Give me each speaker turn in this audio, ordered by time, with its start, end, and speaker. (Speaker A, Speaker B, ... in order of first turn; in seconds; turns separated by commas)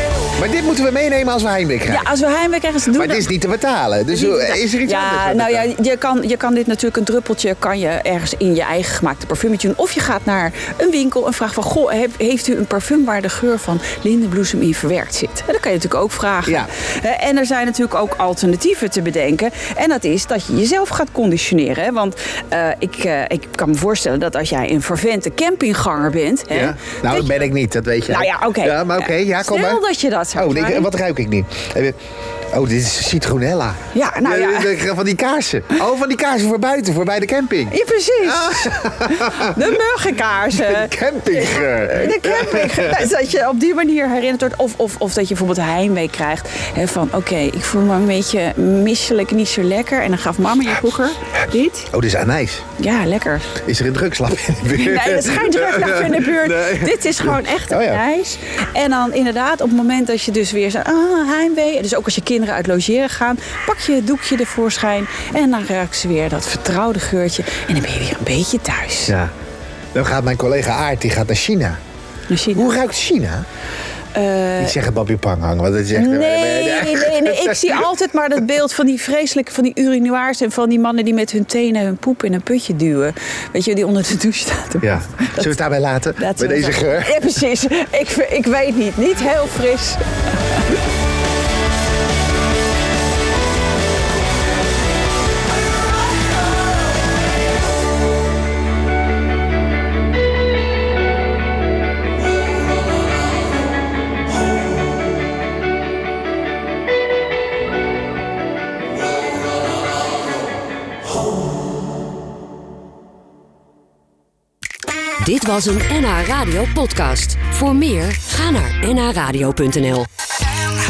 Speaker A: 0.3-2.1, Speaker B: 1.9-3.3, Speaker A: 2.9-5.7, Speaker B: 4.1-27.5, Speaker A: 26.5-29.8, Speaker B: 28.1-30.9, Speaker A: 30.3-32.0, Speaker A: 32.5-39.5, Speaker B: 33.9-34.8, Speaker B: 37.7-51.9, Speaker A: 40.5-43.1, Speaker A: 51.9-52.6, Speaker B: 52.8-53.5, Speaker A: 53.6-58.0, Speaker B: 54.7-69.1, Speaker A: 69.9-71.8, Speaker B: 72.3-72.7, Speaker A: 72.5-73.4, Speaker B: 74.1-74.8, Speaker A: 74.6-77.9, Speaker B: 75.9-85.5, Speaker A: 84.8-87.3, Speaker B: 86.2-90.0, Speaker C: 115.2-120.1